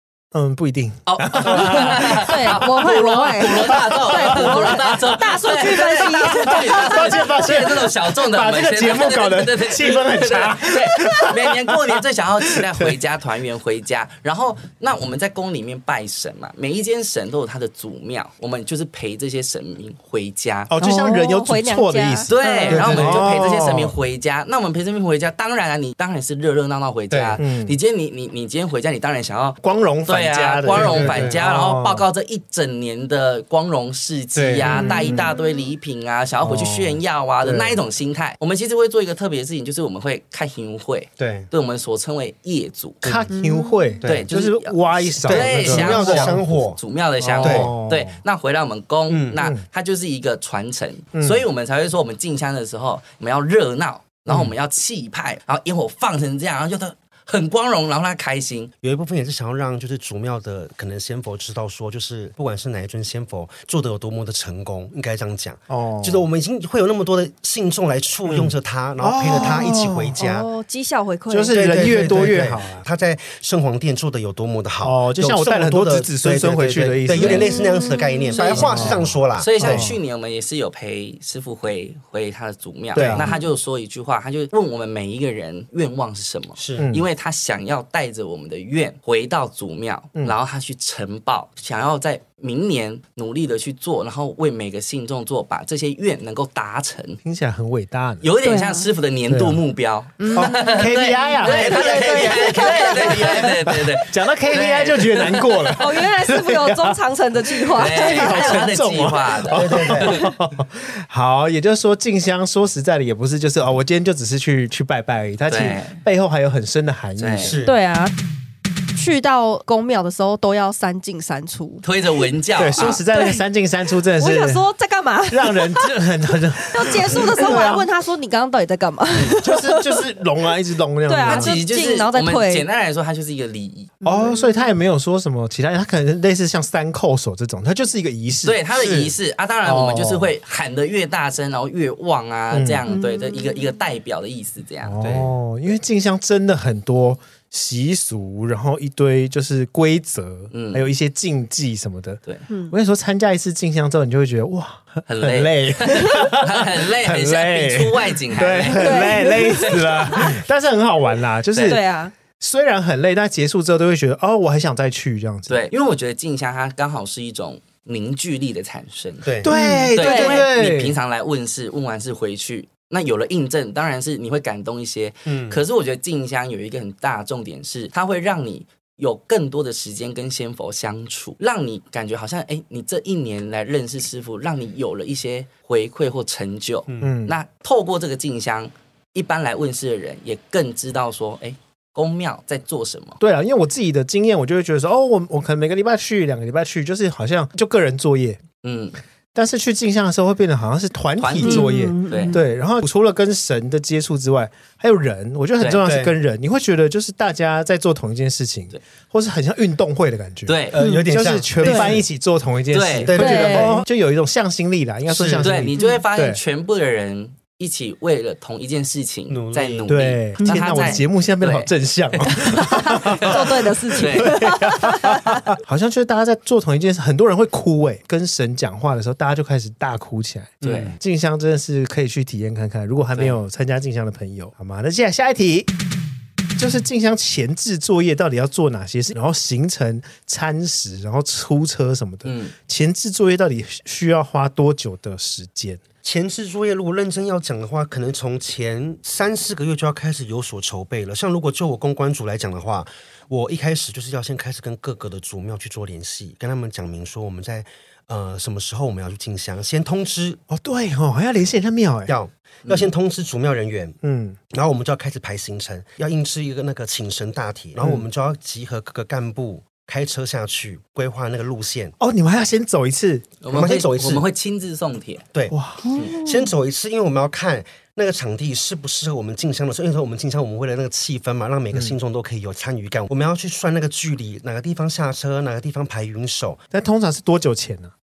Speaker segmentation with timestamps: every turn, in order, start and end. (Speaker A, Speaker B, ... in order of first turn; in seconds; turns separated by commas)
Speaker A: 0.3-2.6, Speaker B: 1.1-20.7, Speaker C: 1.8-7.5, Speaker A: 3.5-5.0, Speaker A: 6.2-12.0, Speaker A: 12.5-12.9, Speaker A: 20.7-23.9, Speaker C: 20.8-22.9, Speaker B: 22.3-43.1, Speaker D: 22.7-23.2, Speaker D: 27.1-27.4, Speaker A: 27.4-27.8, Speaker A: 29.6-32.0, Speaker D: 30.7-31.4, Speaker D: 34.4-35.0, Speaker A: 34.7-35.3, Speaker A: 36.4-37.0, Speaker D: 37.4-37.8, Speaker D: 41.2-41.5, Speaker D: 43.0-43.3, Speaker A: 43.0-46.4, Speaker C: 43.3-43.8, Speaker B: 44.0-58.7, Speaker D: 45.2-46.8, Speaker A: 47.2-48.2, Speaker D: 47.4-47.7, Speaker D: 49.1-49.4, Speaker A: 49.4-49.6, Speaker A: 51.1-51.4, Speaker D: 58.8-70.5, Speaker A: 65.7-66.2, Speaker A: 68.2-70.2, Speaker C: 69.3-72.2, Speaker A: 71.3-72.8, Speaker D: 71.5-79.9, Speaker A: 74.8-77.5, Speaker C: 77.1-79.0, Speaker A: 78.4-80.0, Speaker B: 79.3-97.2, Speaker A: 82.9-83.3, Speaker D: 86.6-86.9, Speaker A: 86.8-87.0, Speaker A: 97.2-98.3, Speaker B: 98.2-105.7, Speaker C: 98.4-98.9, Speaker A: 99.3-99.6, Speaker C: 100.2-103.5, Speaker A: 100.3-117.6, Speaker D: 101.4-103.5, Speaker C: 105.7-108.7, Speaker B: 107.8-110.3, Speaker D: 109.5-110.2, Speaker B: 115.5-116.0, Speaker B: 117.2-117.5, Speaker D: 117.4-117.7, Speaker C: 117.6-118.1, Speaker C: 118.9-121.8, Speaker B: 121.8-123.0, Speaker A: 122.6-124.6, Speaker C: 122.8-123.4, Speaker C: 124.2-125.9, Speaker A: 125.3-127.9, Speaker C: 126.7-130.1, Speaker A: 129.2-131.6, Speaker C: 131.1-132.6, Speaker B: 131.2-133.9, Speaker C: 134.0-134.7, Speaker A: 134.0-138.6, Speaker B: 138.4-144.9, Speaker D: 138.7-139.1, Speaker A: 139.6-140.3, Speaker A: 142.5-142.8, Speaker C: 142.9-143.6, Speaker A: 144.8-161.8, Speaker D: 145.0-145.3, Speaker B: 150.5-150.9, Speaker C: 152.5-152.7, Speaker B: 155.1-160.2, Speaker C: 158.7-160.3, Speaker B: 161.5-161.8, Speaker C: 161.7-162.1, Speaker A: 162.4-165.6, Speaker B: 165.5-169.3, Speaker D: 169.2-169.5, Speaker A: 169.4-170.9, Speaker C: 169.5-170.4, Speaker B: 169.9-193.2, Speaker D: 175.2-175.6, Speaker D: 186.9-187.1, Speaker A: 187.0-187.3, Speaker A: 193.2-198.4, Speaker B: 198.6-199.0, Speaker A: 199.3-216.4, Speaker B: 201.2-202.4, Speaker C: 201.4-202.4, Speaker B: 205.6-205.9, Speaker D: 205.8-206.2, Speaker B: 210.5-210.7, Speaker D: 210.7-212.0, Speaker C: 210.8-211.1, Speaker C: 211.6-211.9, Speaker B: 212.7-213.3, Speaker D: 213.1-213.8, Speaker C: 213.1-213.8, Speaker D: 215.1-215.5, Speaker B: 215.4-221.7, Speaker D: 219.3-220.0, Speaker A: 219.9-235.7, Speaker C: 220.4-221.0, Speaker C: 222.3-225.4, Speaker B: 222.9-224.4, Speaker D: 230.6-231.0, Speaker B: 230.6-231.0, Speaker A: 236.6-245.8, Speaker B: 242.2-242.5, Speaker D: 246.0-260.4, Speaker A: 260.5-262.1, Speaker D: 262.1-264.0, Speaker A: 264.0-264.4, Speaker D: 264.5-271.9, Speaker A: 267.8-268.0, Speaker A: 272.0-273.3, Speaker B: 273.4-275.2, Speaker D: 273.5-274.2, Speaker D: 275.3-286.6, Speaker A: 275.5-275.9, Speaker C: 275.8-276.5, Speaker A: 286.7-287.9